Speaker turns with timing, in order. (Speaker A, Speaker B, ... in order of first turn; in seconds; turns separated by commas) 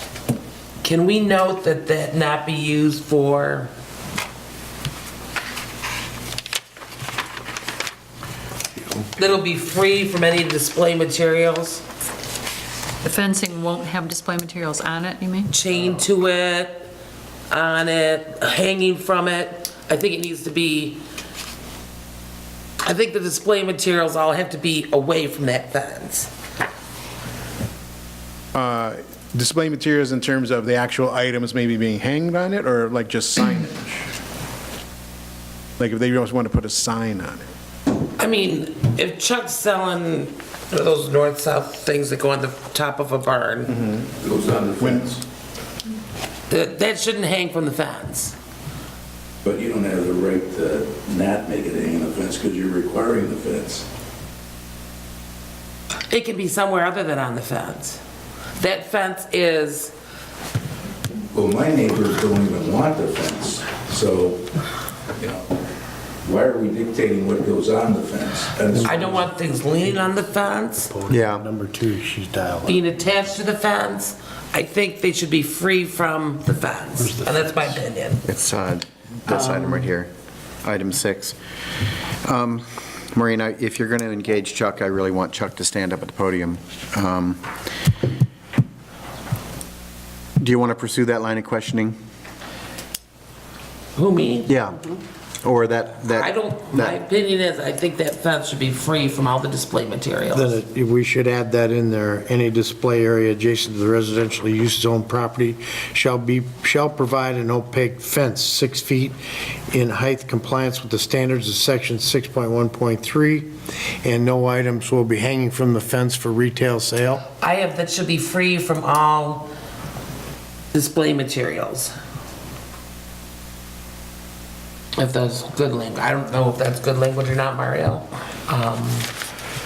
Speaker A: 0.8-3.7, Speaker A: 9.2-11.8, Speaker B: 13.0-15.5, Speaker A: 15.5-16.9, Speaker A: 17.5-21.0, Speaker A: 22.8-26.3, Speaker C: 28.5-34.1, Speaker C: 35.8-37.4, Speaker A: 38.2-43.7, Speaker C: 43.7-44.0, Speaker D: 44.2-45.2, Speaker A: 46.5-48.3, Speaker D: 49.4-53.9, Speaker A: 56.1-58.0, Speaker A: 58.6-59.9, Speaker D: 61.3-64.4, Speaker D: 65.2-65.5, Speaker D: 66.2-69.3, Speaker A: 68.8-70.9, Speaker E: 70.9-72.8, Speaker F: 71.1-71.4, Speaker A: 72.6-78.2, Speaker E: 77.0-77.5, Speaker F: 78.2-80.1, Speaker F: 80.6-81.3, Speaker F: 82.2-87.4, Speaker F: 90.4-91.9, Speaker A: 93.9-94.5, Speaker F: 94.5-94.8, Speaker F: 95.4-97.0, Speaker A: 96.1-100.6, Speaker E: 100.3-109.2, Speaker E: 109.7-113.5, Speaker E: 114.0-117.2, Speaker A: 117.3-119.5, Speaker A: 120.7-121.9, Speaker A: 125.0-129.1